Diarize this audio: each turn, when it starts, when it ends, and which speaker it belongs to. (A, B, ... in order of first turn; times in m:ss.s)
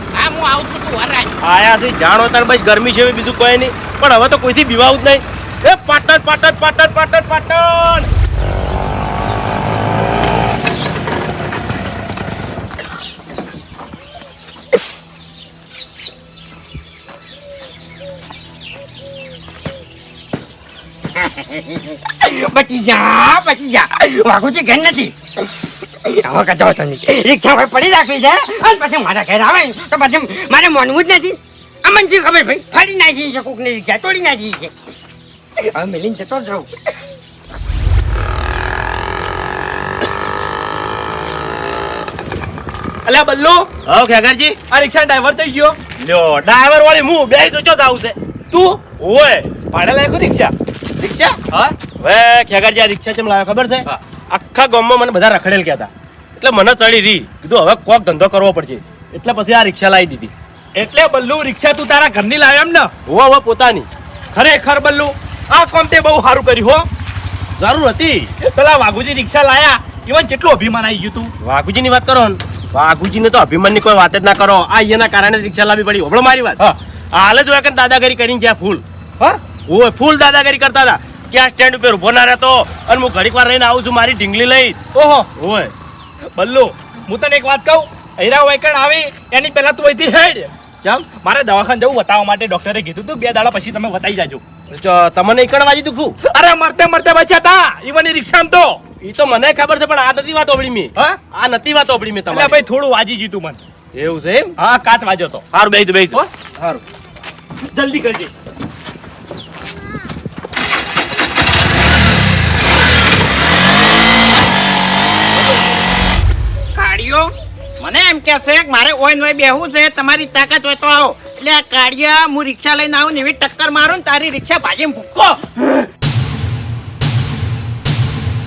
0:00.1-0:01.4 A
0:01.4-0:08.1 B
0:21.2-0:34.7 C
0:35.6-0:36.7 C
0:43.0-0:43.8 D
0:43.8-0:44.6 B
0:44.7-0:45.8 D
0:46.0-0:49.7 B
0:49.6-0:50.5 D
0:51.0-1:00.3 B
1:00.8-1:02.9 D
1:03.0-1:03.9 B
1:04.3-1:06.9 D
1:07.6-1:08.3 B
1:08.4-1:11.3 D
1:11.4-1:18.8 B
1:19.7-1:25.7 B
1:24.9-1:25.3 D
1:26.4-1:30.5 D
1:31.0-1:34.4 D
1:34.7-1:36.2 B
1:36.2-1:38.8 D
1:39.0-1:42.6 B
1:42.3-1:43.6 D
1:43.9-1:44.6 B
1:44.6-1:45.5 D
1:45.5-1:46.8 B
1:47.7-1:48.3 D
1:56.7-2:05.8 A